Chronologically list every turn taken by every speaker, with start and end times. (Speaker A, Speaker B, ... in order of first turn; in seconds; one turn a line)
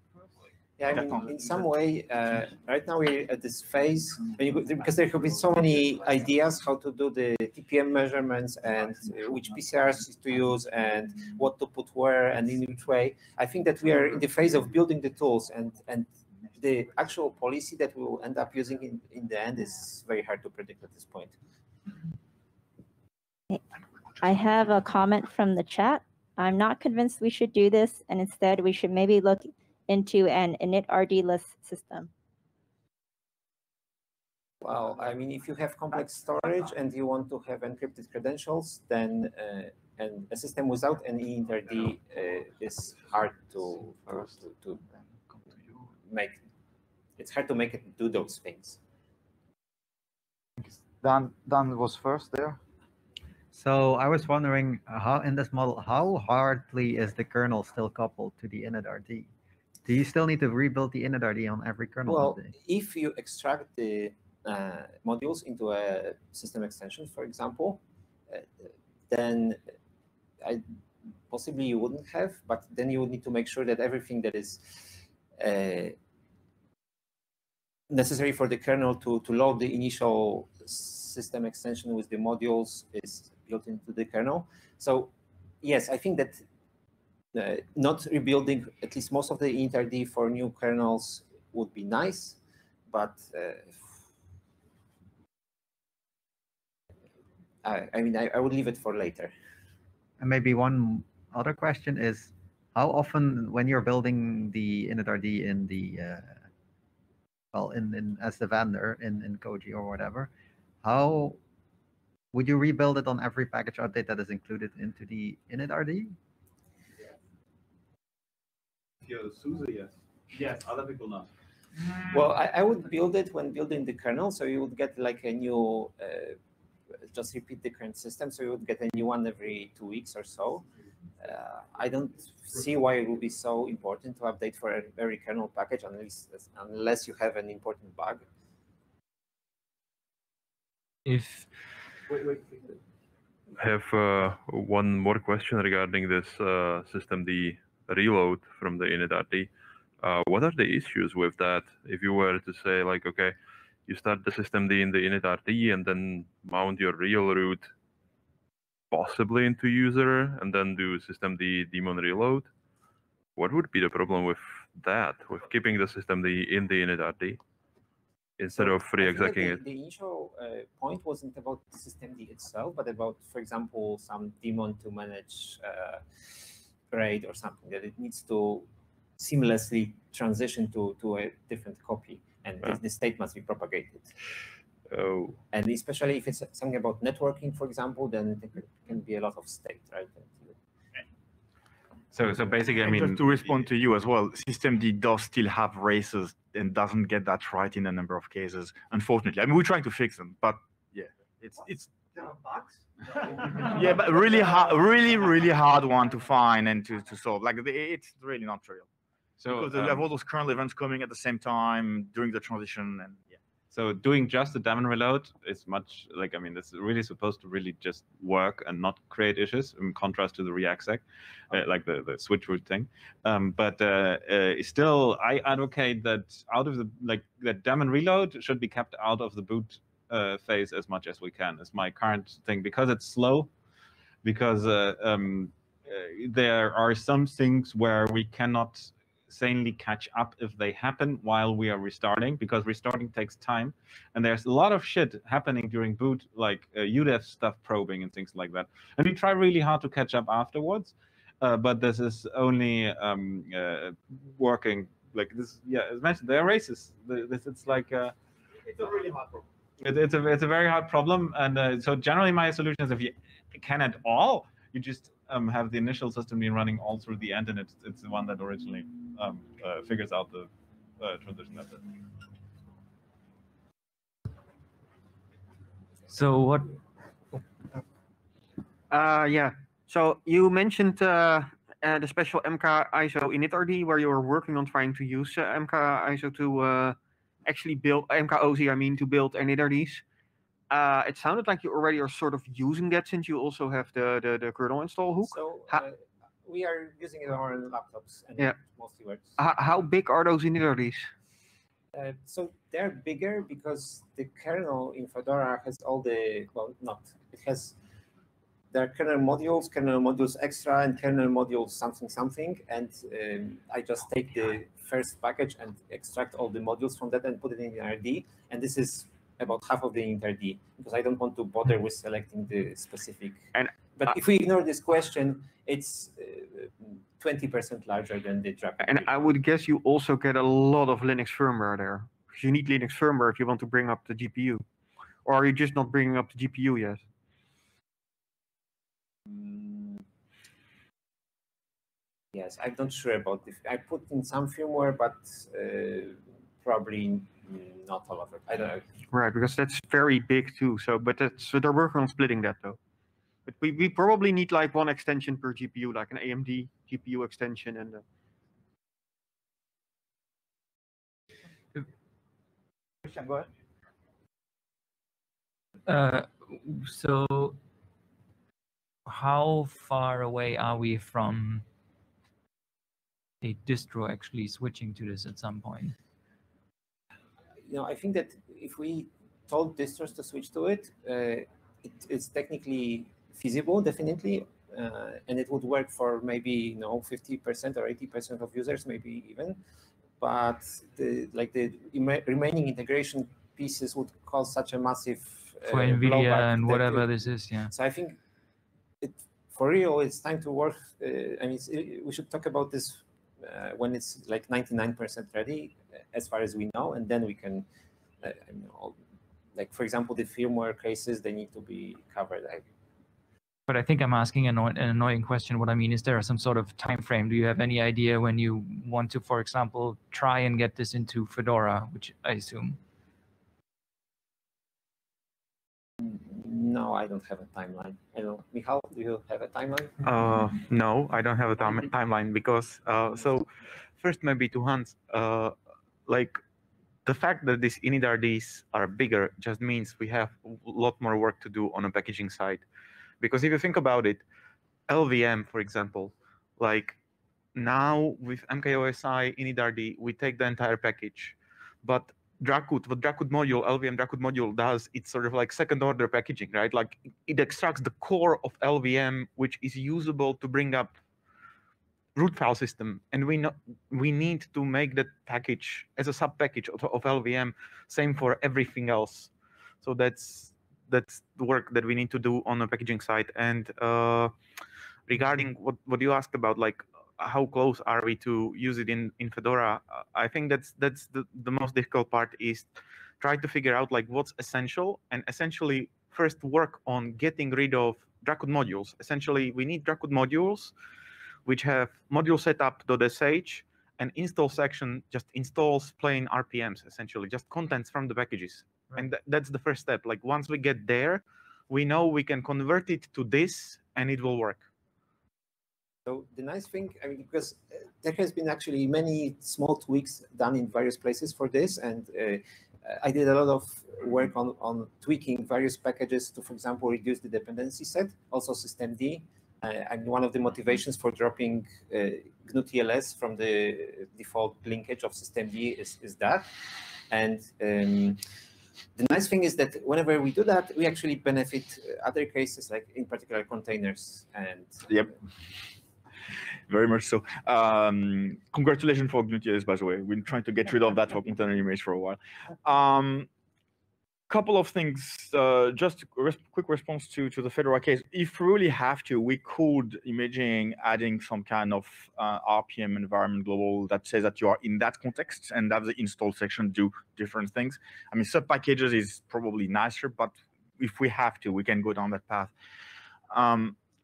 Speaker A: 0.8-21.4
Speaker B: 24.2-32.1
Speaker A: 34.6-44.8
Speaker A: 46.0-46.4
Speaker A: 47.2-48.8
Speaker C: 50.6-52.6
Speaker D: 53.5-59.3
Speaker D: 59.9-62.5
Speaker A: 62.0-69.6
Speaker A: 71.3-76.0
Speaker A: 77.9-86.4
Speaker A: 87.3-92.4
Speaker A: 92.9-93.9
Speaker A: 97.6-99.3
Speaker D: 100.2-106.4
Speaker D: 107.5-110.3
Speaker D: 110.8-111.4
Speaker D: 112.3-116.2
Speaker E: 119.0-121.3
Speaker A: 122.1-126.4
Speaker A: 127.1-130.7
Speaker A: 131.2-138.2
Speaker F: 141.1-141.5
Speaker G: 143.6-153.3
Speaker G: 153.9-157.7
Speaker G: 158.9-162.5
Speaker G: 163.3-167.4
Speaker G: 168.4-169.6
Speaker A: 168.6-176.0
Speaker A: 176.9-178.7
Speaker A: 179.2-184.1
Speaker G: 184.9-185.3
Speaker A: 185.5-190.6
Speaker E: 192.1-193.5
Speaker H: 192.8-201.9
Speaker H: 203.2-208.9
Speaker E: 209.4-210.1
Speaker H: 209.5-213.2
Speaker E: 213.7-233.5
Speaker E: 234.2-258.1
Speaker H: 258.6-259.4
Speaker E: 259.8-271.8
Speaker F: 276.1-276.8
Speaker I: 278.9-290.0
Speaker I: 290.7-295.8
Speaker A: 295.2-299.4
Speaker I: 299.4-301.1
Speaker A: 301.9-307.8
Speaker A: 308.7-329.2
Speaker I: 328.8-334.6
Speaker I: 335.2-337.0
Speaker A: 339.3-340.0
Speaker A: 342.3-348.8
Speaker I: 349.1-352.8
Speaker I: 353.4-358.0
Speaker C: 363.0-363.4
Speaker F: 365.9-367.6
Speaker F: 369.1-371.6
Speaker F: 373.4-375.9
Speaker A: 377.6-389.6
Speaker A: 390.2-397.1
Speaker F: 395.6-397.7
Speaker A: 397.6-398.2
Speaker A: 399.0-407.7
Speaker A: 408.2-409.0
Speaker A: 409.5-412.6
Speaker F: 413.7-422.8
Speaker A: 426.0-429.9
Speaker J: 430.0-435.5
Speaker J: 436.1-436.4
Speaker J: 437.0-442.6
Speaker J: 443.2-444.2
Speaker J: 444.9-447.0
Speaker J: 447.5-461.0
Speaker J: 462.1-469.3
Speaker J: 469.8-474.3
Speaker J: 475.1-490.7
Speaker J: 491.4-504.6
Speaker A: 506.1-526.5
Speaker A: 527.1-528.2
Speaker A: 529.0-534.9
Speaker H: 536.7-543.3
Speaker H: 544.3-562.5
Speaker H: 563.3-563.8